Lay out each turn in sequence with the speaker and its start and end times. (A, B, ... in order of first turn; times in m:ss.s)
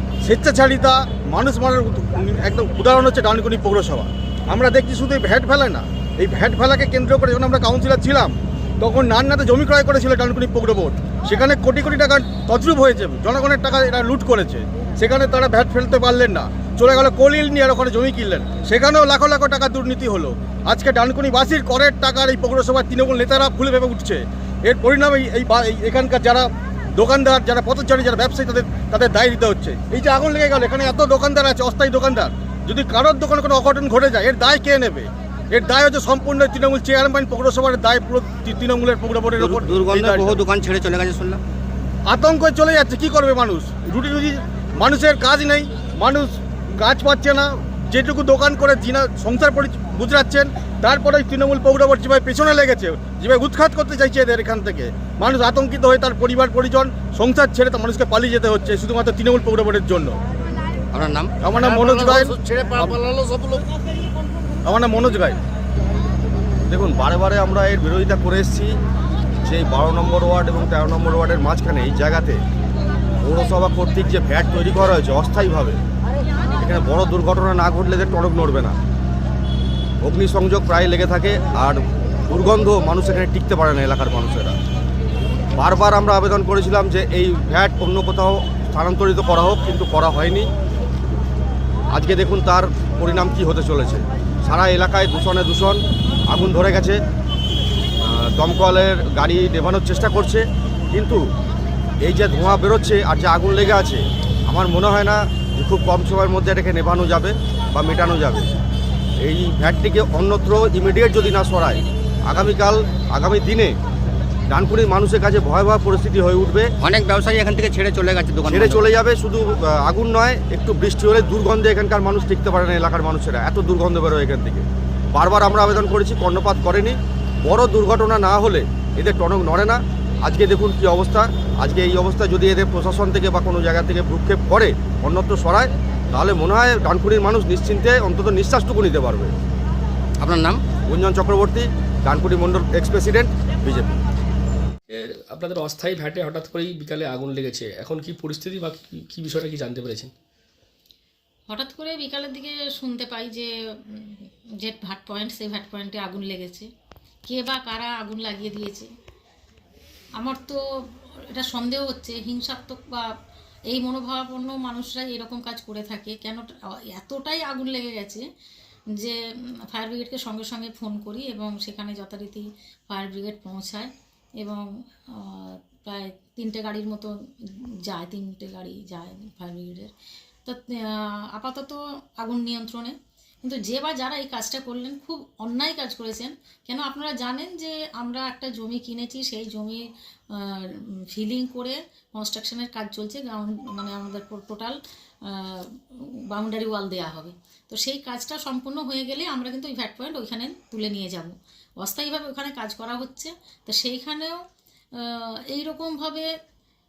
0:00.2-0:40.4 A
0:39.4-0:41.4 B
0:42.1-1:00.2 A
1:00.9-1:03.6 B
1:01.4-1:03.0 A
1:04.7-1:05.4 A
1:06.7-1:08.7 C
1:09.4-1:12.4 C
1:13.2-1:15.8 C
1:16.5-1:18.8 C
1:20.0-1:24.6 C
1:25.6-1:30.5 C
1:31.9-1:37.0 C
1:38.0-1:41.2 C
1:42.0-1:48.5 C
1:49.2-1:53.8 C
1:54.5-1:56.7 C
1:56.8-1:58.9 B
1:58.4-2:19.3 C
2:20.2-2:20.6 B
2:20.9-2:23.9 C
2:24.9-2:30.1 D
2:31.5-2:36.7 E
2:37.3-2:38.9 E
2:40.2-2:40.6 E
2:41.3-2:43.1 E
2:43.7-2:48.2 E
2:49.7-2:59.9 E
3:00.4-3:24.4 E
3:25.0-3:26.3 E